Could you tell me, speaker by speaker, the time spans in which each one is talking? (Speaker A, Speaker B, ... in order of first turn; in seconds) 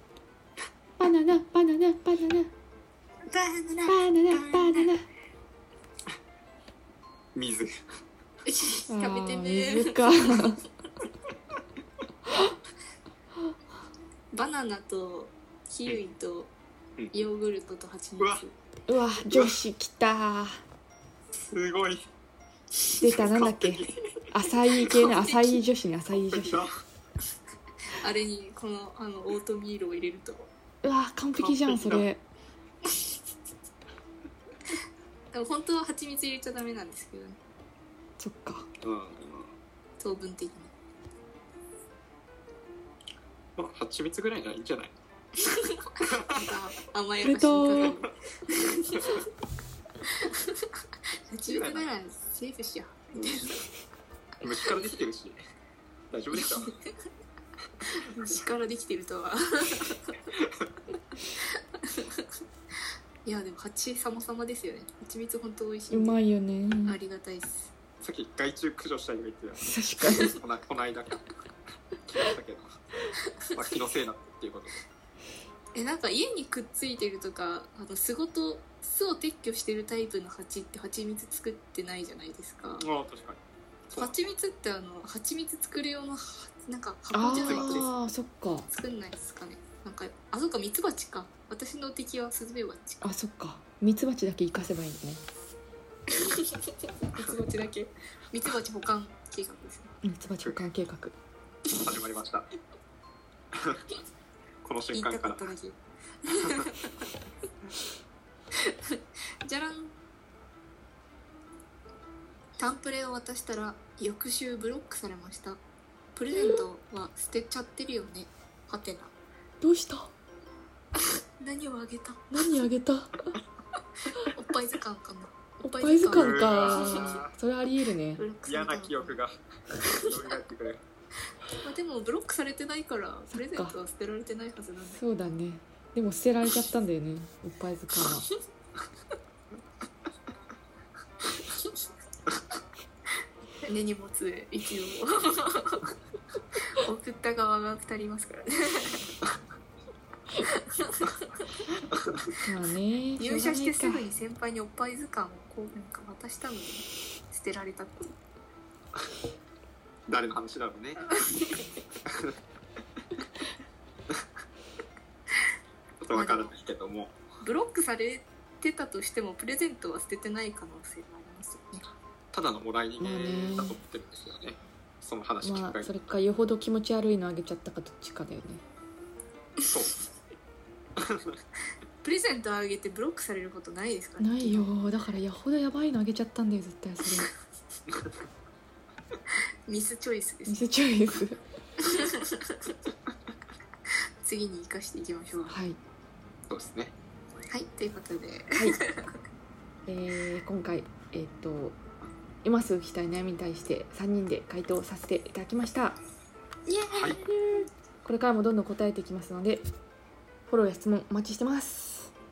Speaker A: 1.0-2.5, 3.9-5.0, 8.9-10.6, 18.9-20.6, 23.0-26.7, 30.8-32.2, 38.2-38.7, 47.2-47.9, 65.9-67.0, 69.6-70.3, 87.1-88.7, 93.0-95.2, 100.0-101.1, 116.3-116.6, 119.6-120.1, 122.3-123.3, 125.6-128.2, 133.3-133.8, 134.9-138.3, 152.4-154.1, 173.0-173.8, 175.4-178.6, 184.2-187.3, 190.5-191.4, 195.5-195.8, 199.9-201.8, 202.4-206.0, 208.0-209.7, 210.5-212.1
Speaker B: 3.2-4.9, 8.4-10.3, 14.3-16.5, 17.1-18.6, 25.0-25.6, 27.9-30.5, 35.3-37.4, 40.0-40.7, 45.4-49.2, 50.2-50.7, 51.3-53.6, 56.4-56.7, 58.1-60.2, 61.8-62.2, 63.2-66.2, 66.8-67.7, 75.7-82.8, 84.0-87.9, 88.7-93.1, 96.1-99.9, 104.9-107.1, 108.6-109.9, 112.6-115.6, 116.2-119.1, 121.4-122.3, 124.3-127.3, 128.2-129.2, 129.8-130.3, 131.6-135.0, 143.6-145.9, 146.8-149.1, 150.4-151.4, 153.2-158.1, 166.1-166.5, 167.4-171.8, 182.0-184.7, 189.7-190.6, 191.8-192.7, 194.2-195.6, 197.5-199.1, 206.7-207.7
Speaker C: 7.3-7.8, 19.3-19.6, 21.3-22.1, 23.0-24.1, 24.7-25.3, 26.2-26.7, 31.4-32.1, 38.8-39.5, 43.6-45.0, 46.1-46.4, 51.5-51.9, 54.4-55.4, 56.1-56.7, 68.0-69.7, 70.2-71.3, 72.1-72.8, 73.5-74.8, 82.8-84.2, 87.3-87.8, 101.7-102.5, 103.5-103.8, 104.6-105.5, 126.1-127.3, 128.4-129.4, 129.9-130.8, 160.1-161.1, 162.1-162.3, 166.0-167.2, 172.3-175.9, 179.7-180.0, 181.0-181.4, 196.5-196.9, 206.9-207.2